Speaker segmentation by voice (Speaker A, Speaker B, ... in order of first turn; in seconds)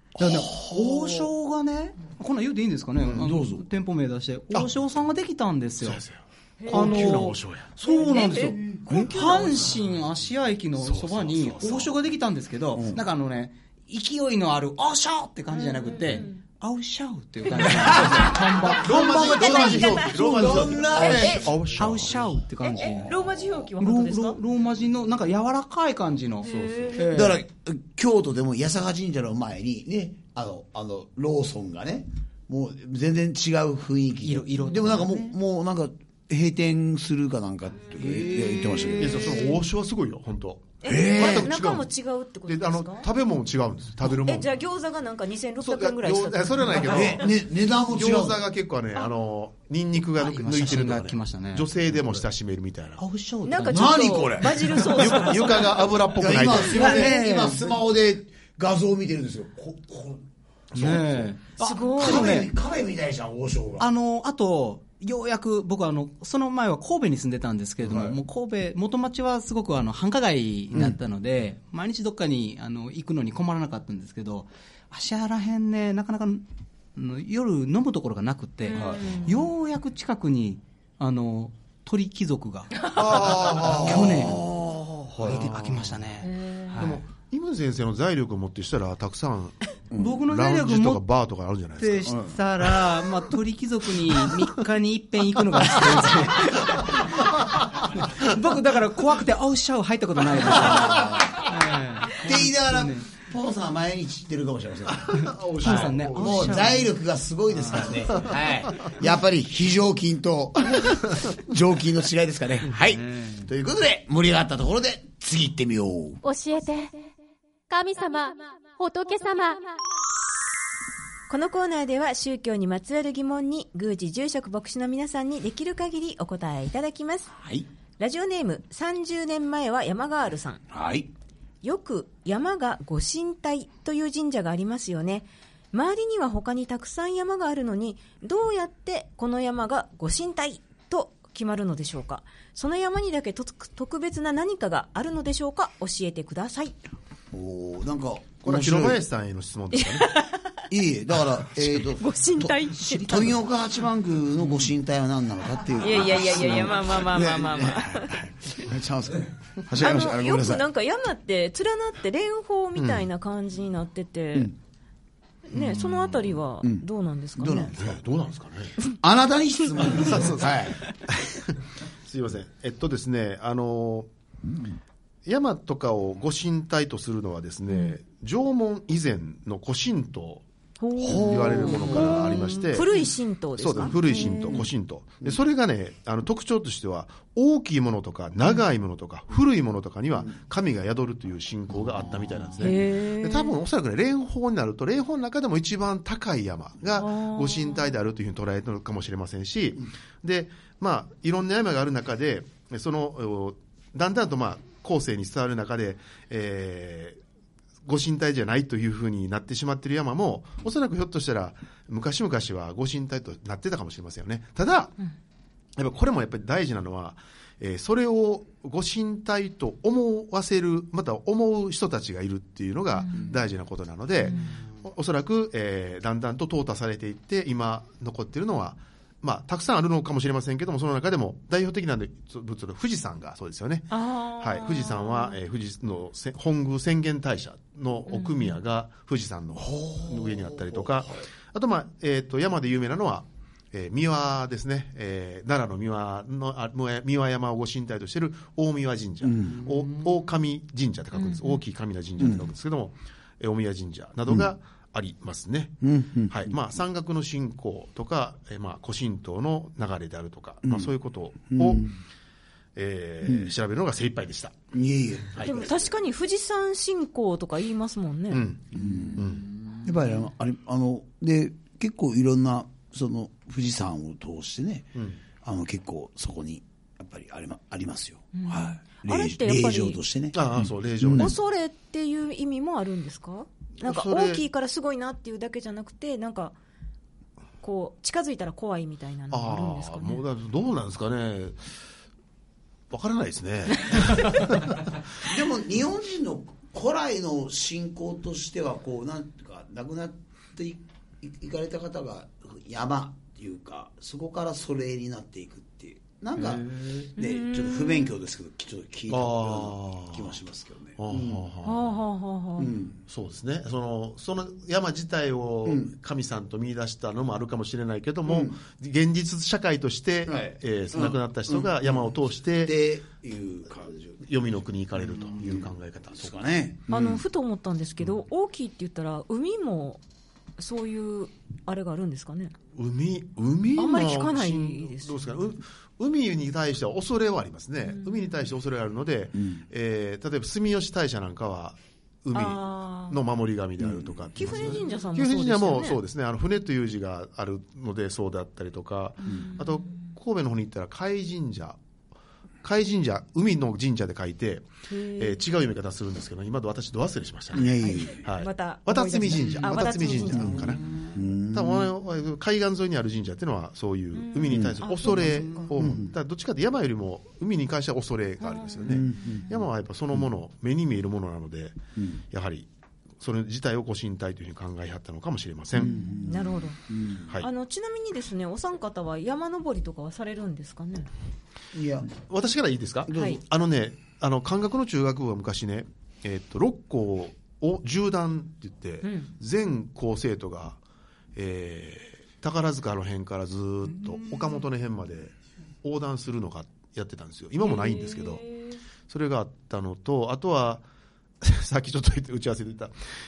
Speaker A: 0.2-1.3, 3.1-3.6, 8.6-9.8, 12.8-13.0, 17.6-21.5, 27.1-39.2, 40.9-41.5, 46.8-48.4, 53.7-55.0, 56.1-63.9, 67.8-68.2, 78.7-79.2, 83.6-85.5, 89.9-90.2, 92.1-92.4, 100.7-101.5, 102.2-116.2, 127.4-127.7, 130.7-131.1, 147.3-149.0, 150.7-160.7, 166.6-168.0, 168.9-170.8, 181.3-182.3, 184.1-184.6, 239.6-240.9, 249.2-249.7, 252.2-252.5, 255.8-256.5, 260.6-260.9, 261.5-261.9, 263.2-263.5, 264.7-265.6, 268.7-269.3, 269.8-281.3, 295.2-311.5, 312.6-313.0, 315.6-315.9, 318.3-318.6, 320.3-324.2, 325.3-327.2, 339.4-339.6, 343.8-344.7, 357.5-358.2, 360.3-361.9, 364.5-364.8, 365.7-366.1, 368.9-369.5, 375.8-377.3, 381.7-382.1, 383.1-383.4
Speaker B: 0.2-6.0, 6.7-19.9, 21.0-23.2, 23.8-27.4, 34.2-35.4, 37.9-39.5, 50.2-51.7, 53.0-55.3, 56.6-57.8, 60.7-62.5, 63.8-84.5, 85.2-87.0, 90.0-91.0, 91.8-103.1, 105.2-106.9, 107.5-108.3, 112.8-113.5, 165.5-166.3, 249.7-250.2, 306.5-306.9, 394.1-394.4
Speaker C: 3.0-3.3, 5.8-7.8, 10.8-11.9, 18.9-22.3, 26.4-27.0, 39.0-41.9, 42.5-44.5, 45.6-53.0, 54.9-57.2, 60.8-61.1, 82.9-84.4, 85.2-86.0, 86.8-89.6, 90.1-92.2, 104.9-106.7, 148.4-150.2, 162.8-163.1, 167.7-168.8, 170.0-171.5, 172.1-174.1, 175.3-180.4, 181.0-182.9, 183.6-207.2, 207.8-214.9, 215.8-261.9, 262.8-264.6, 268.3-269.5, 280.3-281.3, 283.8-284.4, 289.3-291.7, 292.9-295.0, 309.1-310.3, 311.0-311.9, 313.1-322.7, 324.2-326.4, 332.8-351.8, 352.6-360.8, 361.5-371.8, 372.3-372.7, 373.2-376.0, 382.2-390.8, 391.4-398.4, 399.1-400.9, 401.4-402.9
Speaker D: 6.6-7.3, 7.8-8.6, 15.5-16.4, 18.7-21.6, 22.6-24.4, 26.4-27.1, 39.2-39.6, 40.8-43.1, 44.1-47.3, 53.4-55.8, 61.6-62.4, 78.7-79.3, 82.8-83.6, 86.2-86.9, 121.3-127.3, 128.0-130.6, 131.6-146.8, 149.7-150.5, 151.9-153.4, 155.8-158.2, 159.8-164.5, 165.5-167.7, 177.7-178.0, 180.8-184.7, 192.6-193.6, 197.0-197.9, 233.9-235.4, 238.1-238.6, 251.2-251.6, 265.4-268.4, 278.4-280.0, 281.1-286.6, 287.6-290.2, 307.2-308.1, 311.6-312.7, 326.9-330.0, 330.6-332.5, 333.8-335.2, 337.9-338.2, 342.3-343.2, 344.4-346.0, 349.2-349.9, 354.9-355.4, 357.8-360.8, 364.1-365.8, 368.4-369.5, 375.8-376.8, 377.4-381.1, 383.1-383.4, 389.0-389.3, 397.6-398.8
Speaker E: 116.2-116.9, 117.7-119.7